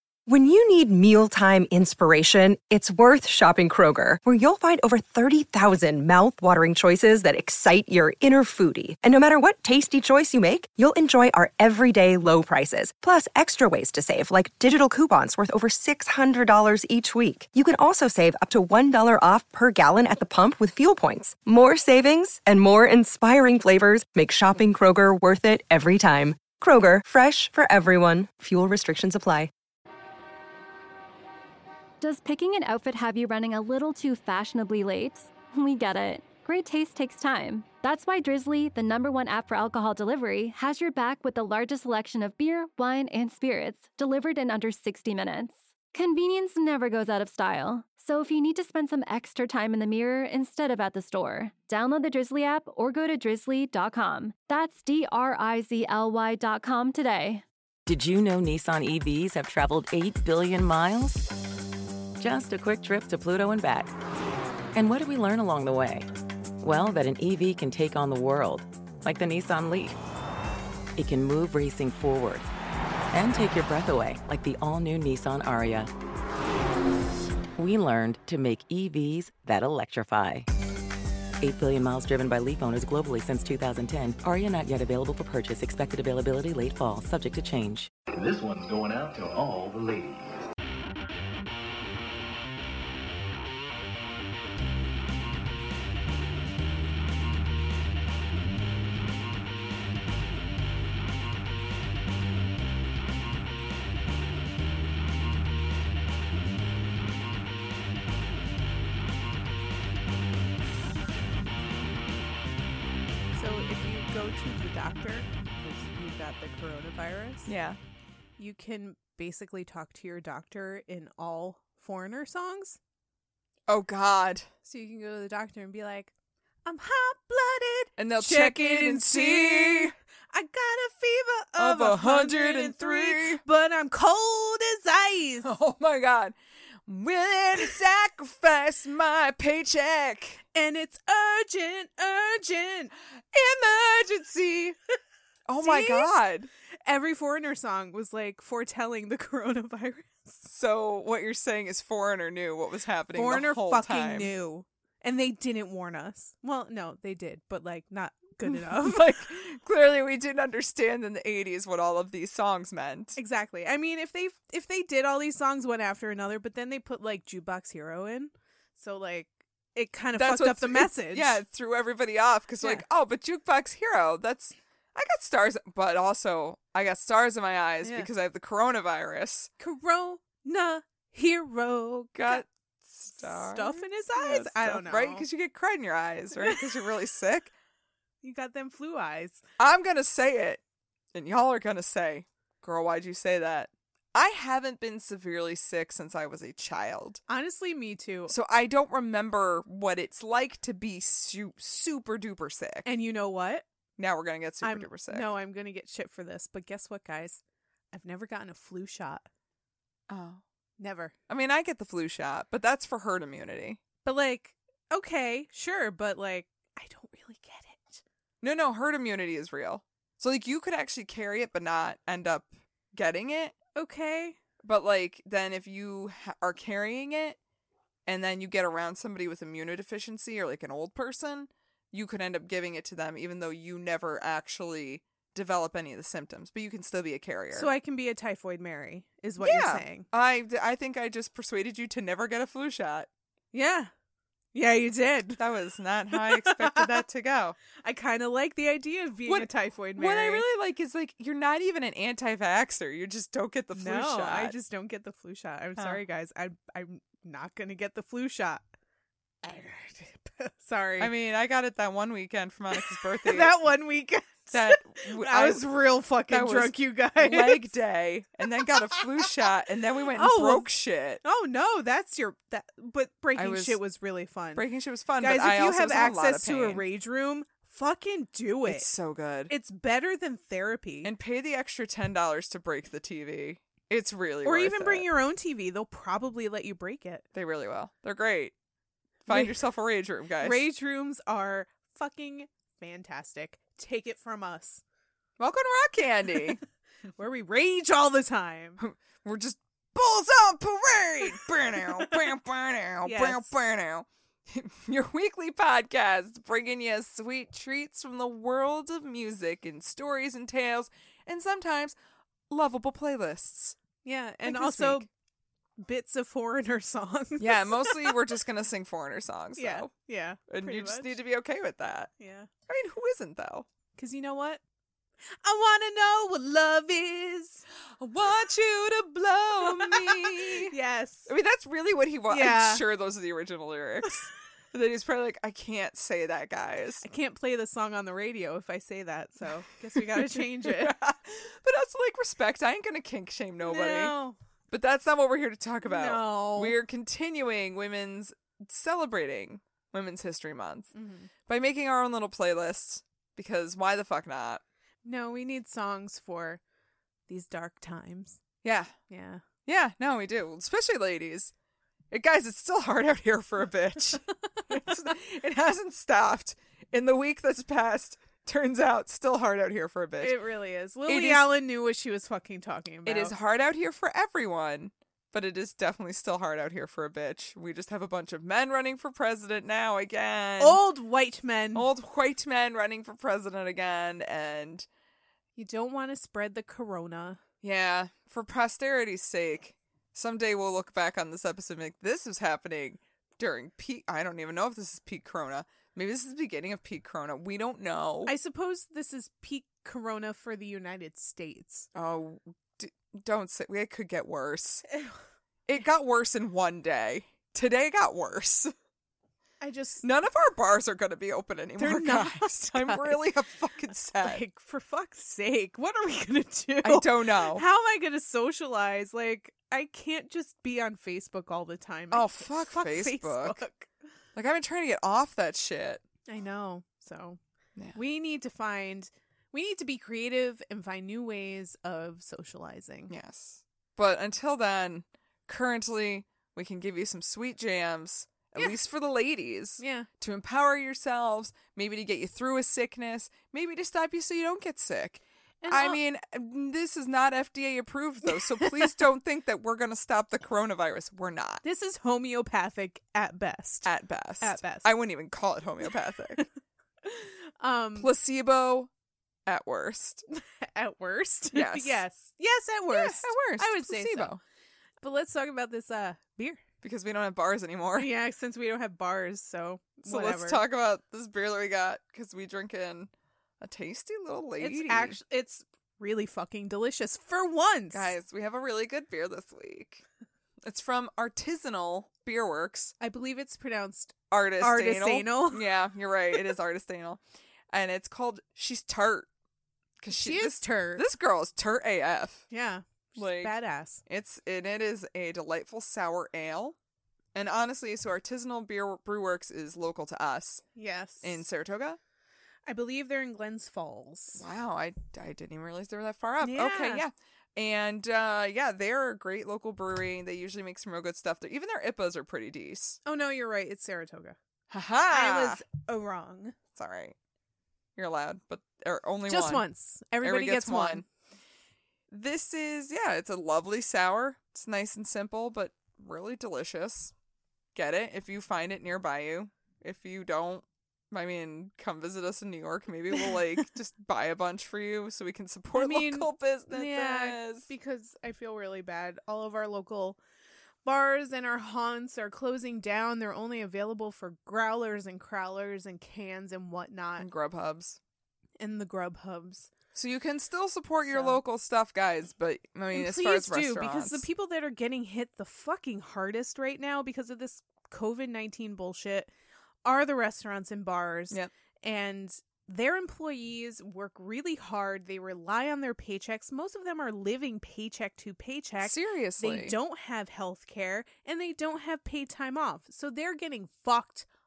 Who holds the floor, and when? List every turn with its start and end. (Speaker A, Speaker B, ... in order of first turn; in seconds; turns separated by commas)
Speaker A: 0.2-29.5, Speaker B: 32.0-57.4, Speaker C: 57.9-61.3, Speaker C: 62.2-63.9, Speaker C: 64.7-66.1, Speaker C: 66.6-70.0, Speaker C: 71.0-72.5, Speaker C: 73.1-75.9, Speaker C: 77.6-80.5, Speaker C: 81.4-87.9, Speaker D: 88.1-90.4, Speaker E: 113.3-117.5, Speaker F: 117.5-117.8, Speaker E: 118.4-122.8, Speaker F: 123.7-124.5, Speaker E: 124.6-126.1, Speaker E: 126.6-135.5, Speaker F: 128.0-129.9, Speaker F: 131.6-133.4, Speaker F: 135.4-140.4, Speaker E: 140.5-142.9, Speaker F: 143.3-144.8, Speaker F: 145.5-146.5, Speaker E: 145.6-146.1, Speaker E: 146.8-150.4, Speaker F: 150.5-154.3, Speaker E: 153.1-159.2, Speaker F: 158.4-163.2, Speaker E: 163.2-171.4, Speaker F: 170.1-179.5, Speaker E: 177.8-178.1, Speaker E: 179.6-182.4, Speaker F: 182.1-187.5, Speaker E: 183.2-185.2, Speaker E: 186.3-186.6, Speaker E: 188.2-189.4, Speaker F: 189.6-190.6, Speaker F: 191.1-197.2, Speaker E: 197.3-198.3, Speaker F: 198.3-202.9, Speaker E: 202.8-203.6, Speaker F: 204.0-205.3, Speaker E: 204.6-207.4, Speaker E: 207.9-209.3, Speaker F: 210.1-210.4, Speaker E: 210.8-211.1, Speaker F: 211.3-213.8, Speaker E: 214.0-218.0, Speaker F: 218.4-223.5, Speaker E: 223.8-224.4, Speaker F: 224.6-227.4, Speaker F: 228.1-237.7, Speaker E: 237.5-240.1, Speaker F: 239.4-243.1, Speaker E: 243.5-243.9, Speaker E: 244.5-245.4, Speaker F: 245.4-247.6, Speaker E: 246.1-247.0, Speaker E: 247.7-250.5, Speaker F: 249.2-254.5, Speaker E: 253.7-258.6, Speaker F: 255.8-256.0, Speaker E: 259.4-261.1, Speaker F: 261.0-263.6, Speaker E: 263.1-267.7, Speaker F: 264.5-265.7, Speaker F: 266.3-271.2, Speaker E: 270.1-274.7, Speaker F: 273.3-273.8, Speaker F: 274.6-276.8, Speaker E: 275.2-278.9, Speaker F: 278.6-279.5, Speaker E: 279.5-281.1, Speaker F: 281.0-285.1, Speaker E: 284.4-287.2, Speaker F: 287.3-288.5, Speaker F: 289.2-290.6, Speaker E: 289.3-289.6, Speaker E: 290.4-294.8, Speaker F: 295.4-296.6, Speaker E: 297.1-298.8, Speaker F: 298.8-311.9, Speaker E: 303.0-303.5, Speaker F: 312.5-313.8, Speaker E: 314.0-315.1, Speaker F: 314.4-315.1, Speaker E: 315.8-318.1, Speaker F: 317.4-319.9, Speaker E: 319.6-321.2, Speaker F: 320.5-322.1, Speaker E: 322.2-322.5, Speaker F: 322.7-323.7, Speaker E: 323.9-324.6, Speaker E: 325.4-327.6, Speaker F: 328.0-330.7, Speaker E: 329.6-331.3, Speaker F: 331.3-337.0, Speaker E: 332.3-332.8, Speaker E: 337.0-340.9, Speaker F: 340.0-344.1, Speaker E: 343.6-344.4, Speaker F: 344.7-350.9, Speaker E: 345.8-346.8, Speaker E: 350.9-351.3, Speaker F: 351.4-354.6, Speaker E: 355.0-356.6, Speaker E: 357.3-358.4, Speaker F: 358.6-358.9, Speaker E: 359.1-359.5, Speaker F: 359.6-361.5, Speaker F: 362.1-370.4, Speaker E: 370.2-373.3, Speaker F: 371.1-371.5, Speaker F: 373.0-380.8, Speaker E: 380.6-381.9, Speaker F: 381.7-384.9, Speaker E: 385.6-387.4, Speaker F: 387.6-398.3, Speaker E: 398.2-401.9, Speaker F: 401.9-404.8, Speaker F: 405.7-408.7, Speaker E: 409.6-410.0, Speaker F: 410.0-414.4, Speaker E: 411.8-413.2, Speaker E: 414.2-423.9, Speaker F: 416.8-417.6, Speaker F: 422.1-423.6, Speaker F: 424.4-426.0, Speaker E: 426.2-427.4, Speaker E: 427.9-433.1, Speaker F: 433.1-451.6, Speaker E: 439.8-440.1, Speaker E: 445.6-446.0, Speaker E: 448.3-449.0, Speaker E: 451.6-453.9, Speaker F: 453.8-456.4, Speaker E: 454.4-454.9, Speaker E: 457.1-458.1, Speaker F: 457.9-458.9, Speaker F: 459.4-460.2, Speaker E: 460.3-464.3, Speaker F: 461.5-462.0, Speaker F: 462.9-464.4, Speaker E: 465.0-466.6, Speaker F: 466.8-468.1, Speaker E: 467.9-470.6, Speaker F: 470.0-475.2, Speaker E: 474.6-478.1, Speaker F: 477.9-480.0, Speaker F: 480.6-482.9, Speaker E: 483.0-485.7, Speaker F: 484.3-489.3, Speaker F: 490.0-492.5, Speaker E: 490.1-491.0, Speaker E: 492.5-494.0, Speaker F: 493.2-493.6, Speaker F: 494.1-496.8, Speaker F: 497.3-500.6, Speaker E: 500.8-501.4, Speaker F: 501.2-502.0, Speaker E: 502.6-504.4, Speaker F: 504.3-513.0, Speaker E: 506.4-507.0, Speaker E: 513.0-514.4, Speaker F: 514.7-515.6, Speaker E: 515.1-516.6, Speaker F: 516.7-517.1, Speaker F: 518.0-519.6, Speaker E: 519.3-521.0, Speaker F: 520.2-521.0, Speaker F: 522.1-527.1, Speaker F: 527.7-537.7, Speaker E: 535.7-540.2, Speaker E: 540.8-547.3, Speaker F: 547.2-548.0, Speaker E: 548.6-549.7, Speaker F: 549.9-554.3, Speaker E: 551.0-551.4, Speaker E: 552.9-559.3, Speaker E: 559.8-574.2, Speaker F: 568.8-569.8